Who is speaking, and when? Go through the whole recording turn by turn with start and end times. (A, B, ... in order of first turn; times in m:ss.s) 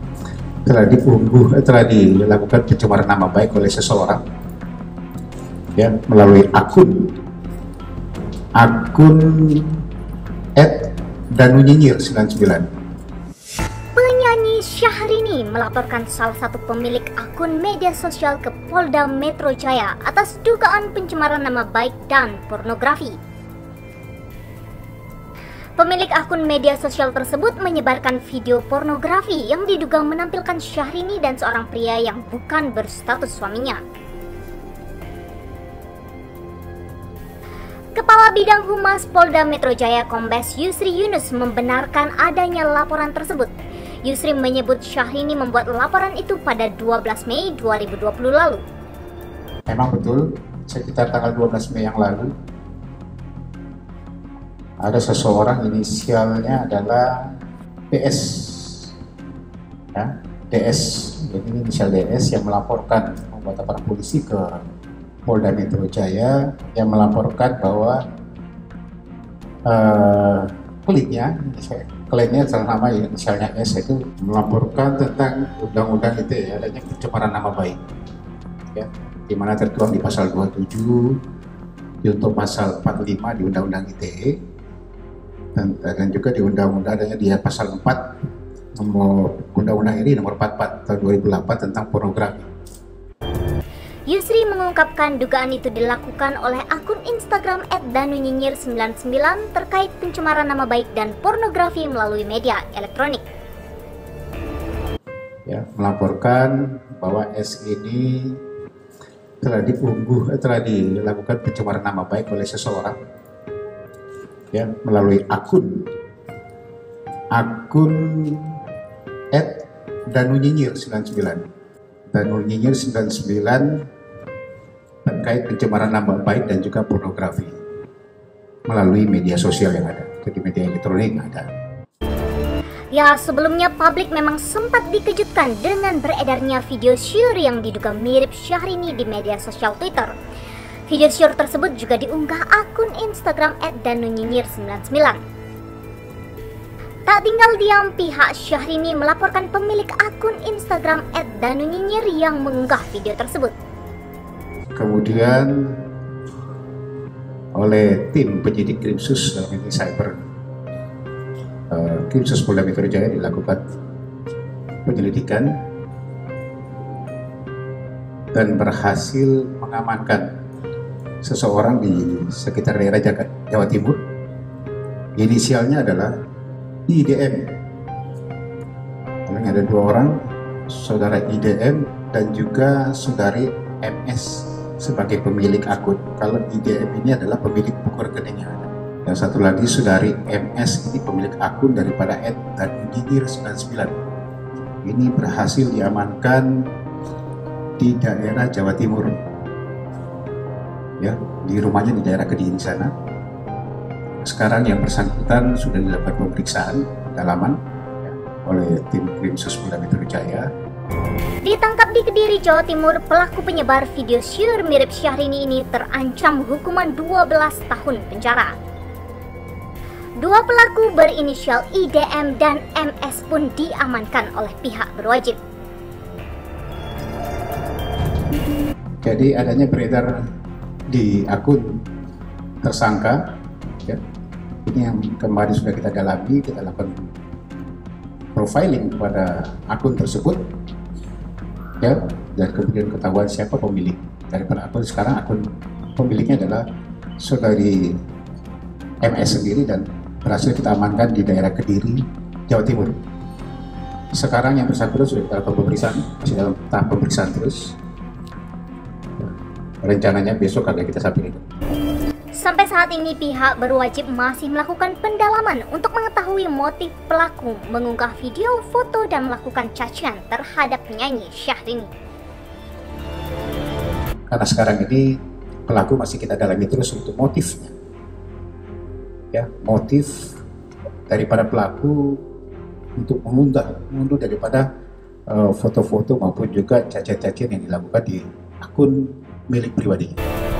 0:00.6-0:04.2 A
0:05.8-0:07.1 A
0:08.6-0:09.8 A
0:10.6-0:12.7 A
0:14.0-0:23.2 B
0:25.8-0:33.8 B
0:37.9-0:43.5 B
0:44.0-0:48.6 B
0:49.7-0:52.3 A
0:54.8-0:57.4 A
0:57.9-0:58.9 A
0:59.9-1:04.6 A
1:05.2-1:08.0 A
1:09.6-1:17.8 A
1:18.7-1:21.2 A
1:22.0-1:24.4 A
1:25.5-1:28.1 A
1:28.8-1:32.5 A
1:34.1-1:43.2 B
1:45.4-1:48.4 A
1:49.4-1:53.0 A
1:54.5-1:55.9 A
1:57.3-1:58.6 A
1:59.3-2:01.5 A
2:02.1-2:03.8 A
2:05.0-2:07.6 A
2:08.7-2:11.5 A
2:12.9-2:20.1 B
2:20.9-2:25.2 B
2:27.1-2:33.5 B
2:34.8-2:35.8 A
2:37.5-2:40.2 A
2:41.7-2:43.6 A
2:44.8-2:45.5 A
2:48.3-2:50.3 A
2:51.2-2:54.0 A
2:55.2-2:56.1 A
2:56.9-2:57.6 A
2:59.3-3:14.0 A
3:14.8-3:16.7 A
3:17.8-3:19.2 A
3:21.0-3:22.9 A
3:24.2-3:30.5 A
3:31.4-3:38.5 B
3:40.2-3:45.4 B
3:49.0-3:50.2 A
3:50.9-3:51.8 A
3:52.6-3:54.0 A
3:54.6-3:57.1 A
3:58.3-4:00.4 A
4:01.8-4:06.6 A
4:07.2-4:08.0 A
4:09.0-4:13.0 A
4:14.1-4:17.8 A
4:19.2-4:21.4 A
4:22.3-4:31.9 B
4:34.3-4:37.7 A
4:39.3-4:40.4 A
4:41.1-4:42.2 A
4:43.0-4:44.6 A
4:45.3-4:50.2 A